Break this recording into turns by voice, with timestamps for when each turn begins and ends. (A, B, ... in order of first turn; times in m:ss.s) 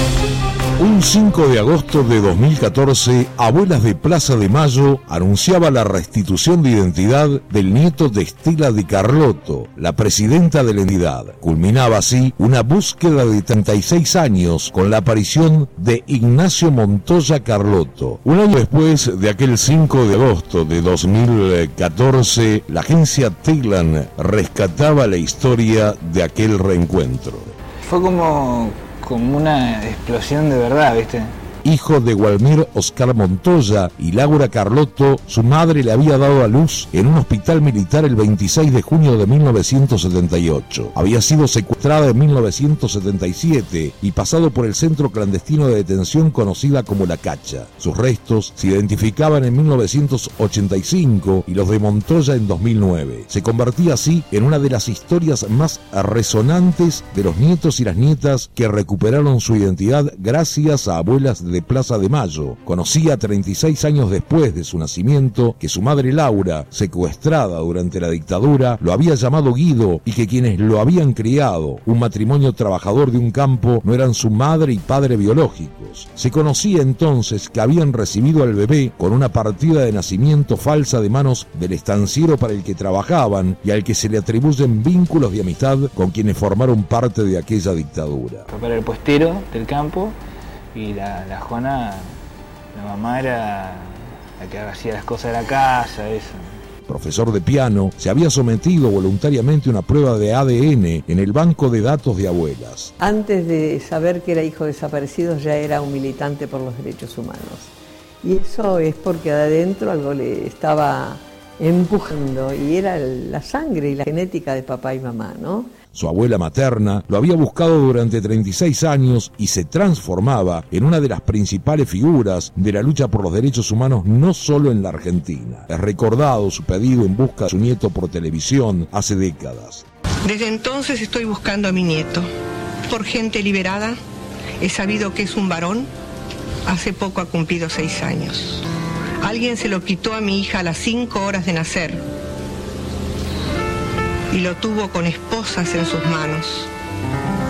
0:00.8-0:27.5 A
0:27.8-0:31.3 B
0:31.6-1:28.4 A
1:28.5-1:30.2 B
1:30.7-1:32.2 B
1:32.7-1:36.6 B
1:36.9-1:42.9 A
1:43.0-1:55.7 C
1:55.9-2:09.8 A
2:10.2-2:12.3 D
2:12.9-2:14.0 D
2:14.6-2:15.9 D
2:16.6-2:18.6 D
2:19.2-2:22.0 D
2:24.3-2:26.7 D